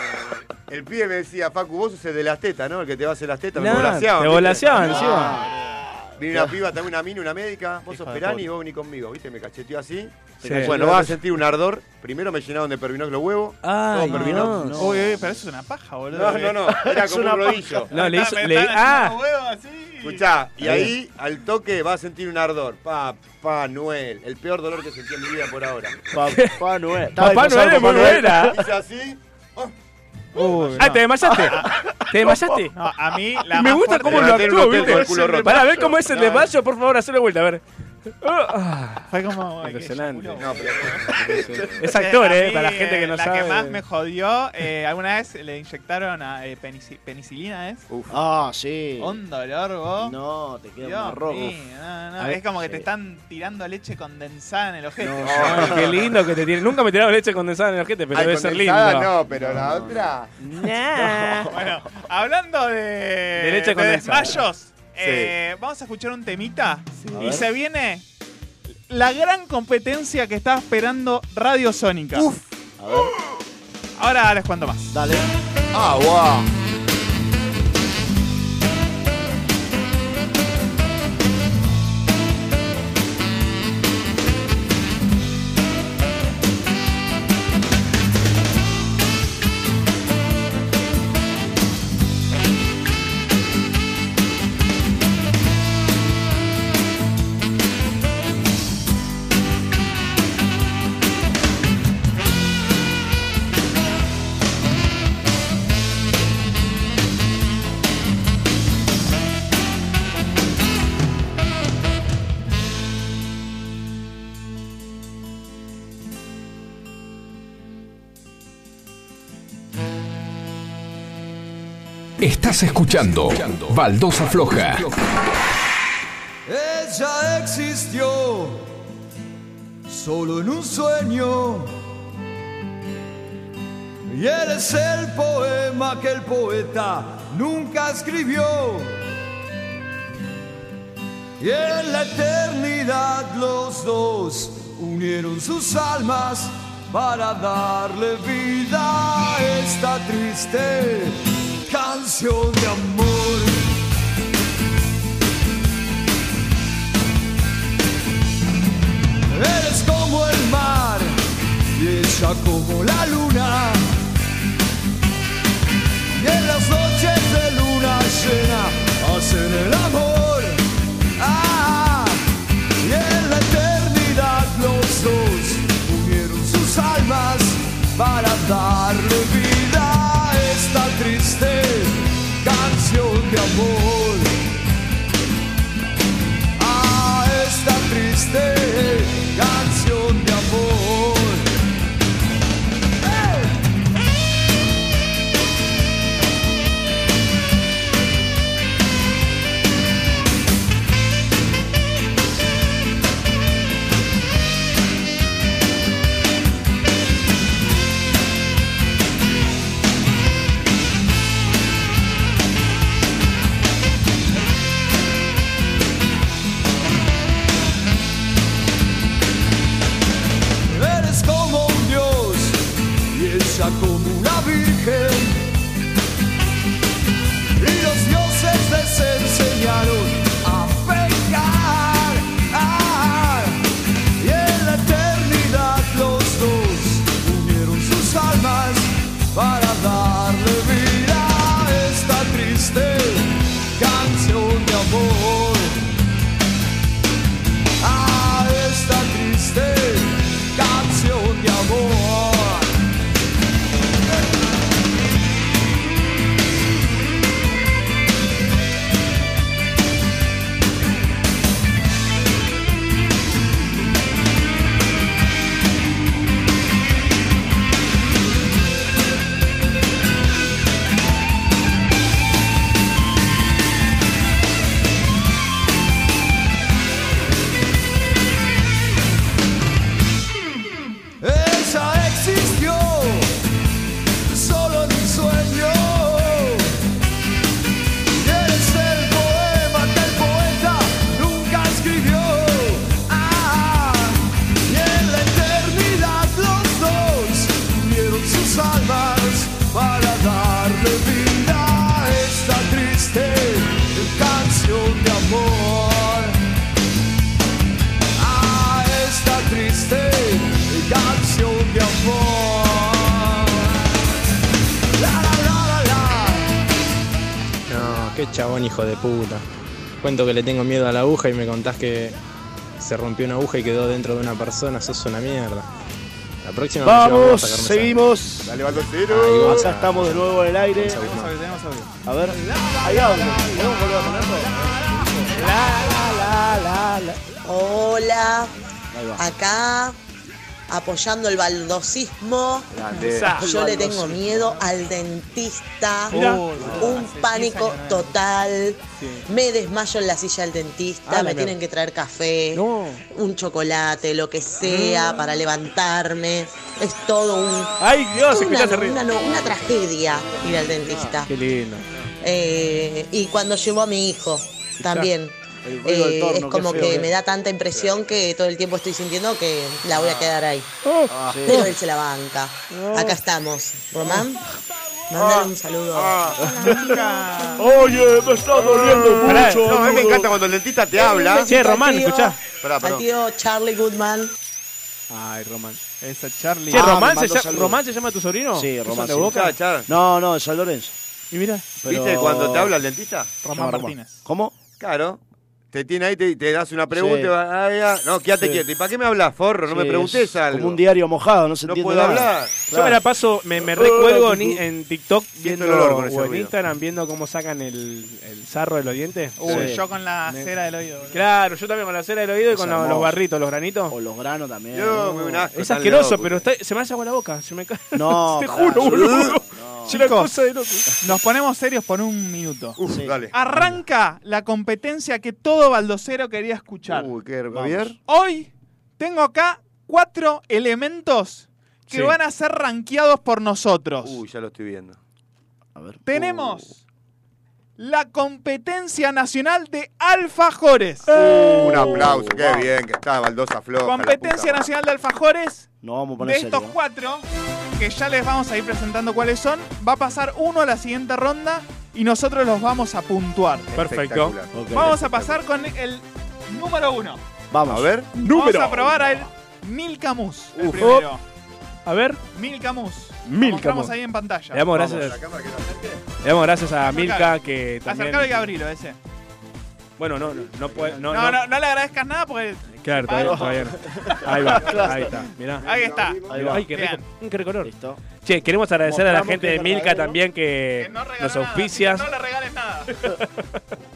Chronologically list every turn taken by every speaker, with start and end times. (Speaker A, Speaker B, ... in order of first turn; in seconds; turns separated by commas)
Speaker A: 0.7-5.3, Speaker B: 3.6-5.4, Speaker C: 4.7-6.5, Speaker A: 6.2-14.8, Speaker C: 10.4-11.2, Speaker B: 10.4-10.8, Speaker B: 13.6-14.9, Speaker C: 14.0-15.2, Speaker D: 14.8-16.7, Speaker A: 16.1-17.9, Speaker C: 16.7-17.9, Speaker D: 17.9-20.2, Speaker B: 17.9-19.2, Speaker A: 20.0-26.0, Speaker C: 20.6-20.9, Speaker C: 26.1-28.6, Speaker B: 26.3-26.6, Speaker B: 27.1-28.6, Speaker A: 27.8-29.7, Speaker D: 30.3-31.8, Speaker B: 30.8-32.7, Speaker D: 32.7-35.5, Speaker B: 33.5-37.6, Speaker A: 34.0-36.4, Speaker B: 38.2-39.1, Speaker D: 39.1-47.8, Speaker B: 39.6-40.4, Speaker A: 40.4-41.9, Speaker B: 41.3-43.8, Speaker A: 47.9-48.1, Speaker C: 48.1-49.2, Speaker D: 49.0-50.1, Speaker C: 50.0-51.6, Speaker D: 50.8-55.3, Speaker C: 55.0-56.0, Speaker A: 55.2-56.0, Speaker B: 55.3-59.1, Speaker A: 58.1-60.3, Speaker C: 59.3-60.1, Speaker B: 60.4-61.5, Speaker C: 61.0-61.6, Speaker D: 61.5-68.0, Speaker B: 63.4-64.4, Speaker A: 65.0-65.3, Speaker C: 67.1-67.5, Speaker D: 68.9-72.3, Speaker A: 72.1-72.5, Speaker C: 72.8-73.1, Speaker D: 74.0-75.0, Speaker C: 74.9-75.2, Speaker A: 75.7-76.5, Speaker E: 122.2-125.0, Speaker F: 126.5-128.7, Speaker F: 129.9-131.8, Speaker F: 134.1-139.0, Speaker F: 141.4-153.7, Speaker F: 159.3-161.2, Speaker F: 161.7-163.8, Speaker F: 166.1-170.6, Speaker F: 171.2-172.2, Speaker F: 172.8-184.4, Speaker F: 186.6-191.6, Speaker F: 220.7-225.4, Speaker F: 227.6-233.6, Speaker F: 234.2-245.9, Speaker F: 247.8-252.7, Speaker F: 281.2-283.4, Speaker F: 284.3-286.8, Speaker F: 288.1-306.4, Speaker F: 308.1-314.0, Speaker F: 315.0-316.5, Speaker G: 317.7-319.4, Speaker G: 320.0-322.1, Speaker G: 322.8-325.7, Speaker G: 326.4-328.1, Speaker C: 326.8-328.6, Speaker A: 328.4-329.6, Speaker G: 329.1-330.3, Speaker C: 329.4-331.2, Speaker G: 330.8-331.3, Speaker D: 330.9-331.9, Speaker C: 332.1-334.9, Speaker F: 332.6-333.9, Speaker F: 334.5-335.1, Speaker B: 335.4-337.2, Speaker H: 337.4-338.5, Speaker C: 338.9-339.2, Speaker H: 339.2-340.0, Speaker H: 340.7-342.8, Speaker A: 342.7-343.3, Speaker D: 342.9-343.4, Speaker B: 343.0-343.5, Speaker H: 343.3-361.3, Speaker C: 343.4-344.5, Speaker B: 346.1-346.9, Speaker D: 346.1-348.2, Speaker B: 349.0-349.2, Speaker B: 351.1-351.6, Speaker B: 352.5-353.0, Speaker B: 354.6-355.1, Speaker B: 357.8-359.0, Speaker C: 360.6-361.1, Speaker B: 361.2-362.0, Speaker H: 362.2-370.7, Speaker B: 364.8-365.1, Speaker C: 365.6-367.1, Speaker A: 369.9-370.3, Speaker B: 370.8-371.7, Speaker C: 371.1-371.7, Speaker H: 371.4-374.4, Speaker B: 372.7-373.2, Speaker H: 375.1-376.9, Speaker A: 375.2-376.4, Speaker D: 376.7-377.7, Speaker B: 377.6-380.1, Speaker F: 377.6-379.6, Speaker A: 378.8-381.5, Speaker H: 380.9-384.3, Speaker B: 381.4-382.4, Speaker A: 382.6-383.0, Speaker B: 385.1-385.9, Speaker D: 386.0-386.9, Speaker B: 386.7-389.5, Speaker C: 386.7-387.8, Speaker C: 388.5-390.9, Speaker A: 389.2-389.9, Speaker B: 391.3-391.7, Speaker C: 391.8-392.7, Speaker A: 391.9-393.3, Speaker B: 393.4-393.9, Speaker D: 393.6-394.2, Speaker C: 393.6-394.5, Speaker A: 394.8-395.2, Speaker A: 395.7-400.8, Speaker C: 396.9-397.3, Speaker C: 399.7-403.0, Speaker A: 401.6-402.5, Speaker B: 402.7-409.6, Speaker C: 403.7-404.6, Speaker A: 405.4-406.5, Speaker D: 409.4-411.2, Speaker C: 409.5-409.8, Speaker B: 411.1-413.9, Speaker C: 412.5-413.1, Speaker C: 413.9-415.2, Speaker A: 414.7-416.5, Speaker B: 415.5-420.9, Speaker C: 417.9-420.1, Speaker A: 418.8-419.3, Speaker D: 419.9-420.3, Speaker D: 421.0-422.8, Speaker A: 422.8-423.3, Speaker C: 422.9-423.2, Speaker D: 423.3-427.1, Speaker A: 426.9-428.0, Speaker C: 427.5-427.9, Speaker D: 428.1-434.2, Speaker B: 431.9-432.1, Speaker A: 434.0-435.0, Speaker C: 435.7-436.6, Speaker D: 436.1-436.8, Speaker D: 437.8-441.1, Speaker C: 441.1-442.6, Speaker B: 441.2-442.0, Speaker A: 441.2-444.7, Speaker D: 443.8-445.7, Speaker C: 445.8-446.8, Speaker D: 446.2-453.7, Speaker A: 453.7-455.4, Speaker B: 453.7-454.4, Speaker C: 454.5-454.9, Speaker D: 454.7-457.2, Speaker C: 457.5-457.9, Speaker A: 457.7-458.1, Speaker D: 458.2-461.2, Speaker B: 458.2-458.9, Speaker A: 460.6-460.9, Speaker B: 460.8-461.1, Speaker B: 461.9-462.2, Speaker D: 462.3-464.7, Speaker B: 463.2-463.9, Speaker B: 464.5-465.2, Speaker A: 464.7-466.0, Speaker B: 466.2-468.4, Speaker D: 466.8-469.0, Speaker B: 470.0-471.4, Speaker C: 470.5-471.1, Speaker D: 471.1-474.4, Speaker B: 472.8-475.7, Speaker C: 473.1-475.1, Speaker A: 474.6-475.1, Speaker A: 475.6-476.6, Speaker D: 475.6-477.0, Speaker C: 476.3-476.7, Speaker B: 476.3-482.1, Speaker C: 477.6-478.0, Speaker C: 478.8-480.2, Speaker D: 480.8-482.9, Speaker B: 482.9-483.5